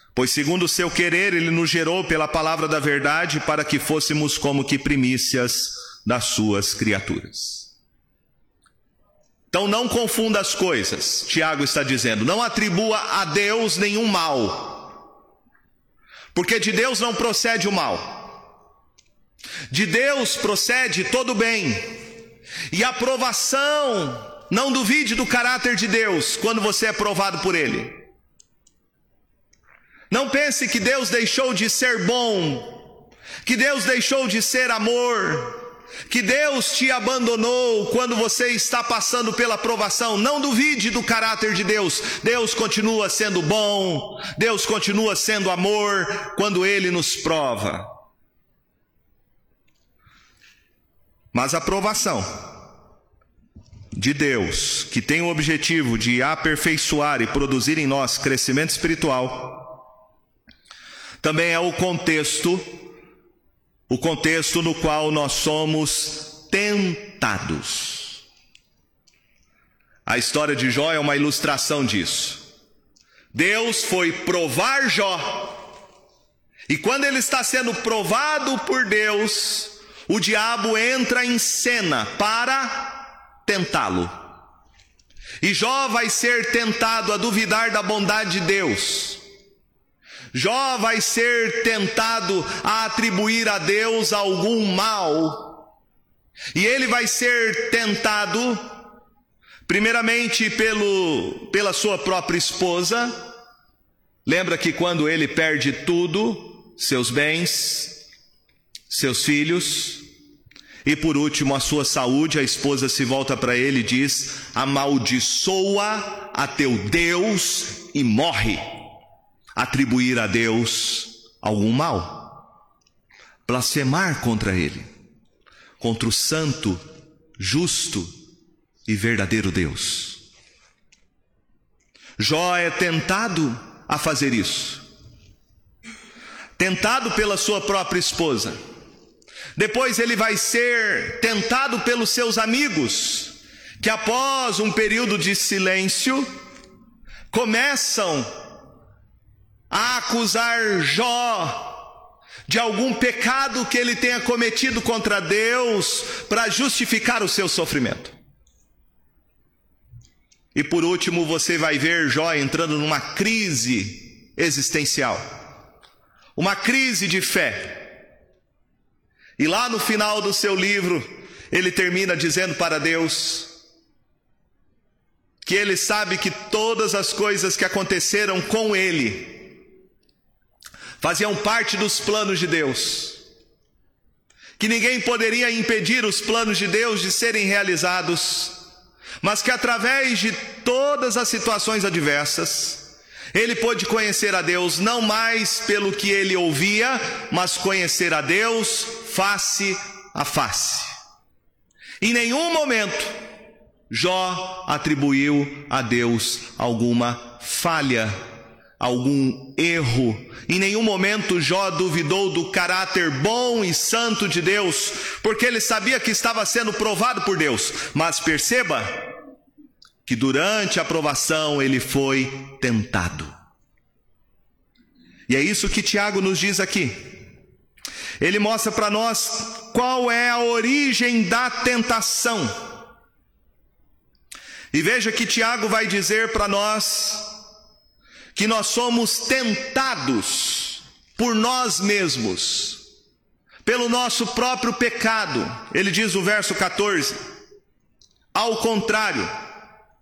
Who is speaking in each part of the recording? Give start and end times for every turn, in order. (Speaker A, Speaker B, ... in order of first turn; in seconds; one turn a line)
Speaker A: 0.1-7.7
Speaker A: 9.5-14.9
Speaker A: 16.3-18.3
Speaker A: 19.7-22.0
Speaker A: 22.7-27.9
Speaker A: 30.1-32.8
Speaker A: 33.4-47.9
Speaker A: 51.3-52.5
Speaker A: 53.9-59.8
Speaker A: 61.2-62.6
Speaker A: 63.9-68.2
Speaker A: 70.0-72.4
Speaker A: 73.3-75.6
Speaker A: 76.7-84.1
Speaker A: 85.4-89.2
Speaker A: 90.3-95.6
Speaker A: 96.5-98.7
Speaker A: 99.7-103.2
Speaker A: 104.2-108.0
Speaker A: 108.9-110.0
Speaker A: 110.8-118.8
Speaker A: 119.5-122.4
Speaker A: 123.5-124.9
Speaker A: 125.8-126.8
Speaker A: 127.4-128.1
Speaker A: 128.8-130.2
Speaker A: 132.2-134.8
Speaker A: 136.6-138.6
Speaker A: 139.6-146.3
Speaker A: 147.3-148.3
Speaker A: 149.7-151.8
Speaker A: 152.5-158.1
Speaker A: 160.5-165.2
Speaker A: 166.3-167.9
Speaker A: 169.4-173.5
Speaker A: 175.4-179.5
Speaker A: 181.0-183.2
Speaker A: 184.6-188.6
Speaker A: 189.2-200.9
Speaker A: 202.0-203.1
Speaker A: 203.9-208.1
Speaker A: 208.8-218.9
Speaker A: 220.1-223.3
Speaker A: 225.3-227.1
Speaker A: 228.2-232.6
Speaker A: 234.7-237.3
Speaker A: 238.3-242.8
Speaker A: 243.6-247.2
Speaker A: 248.3-249.3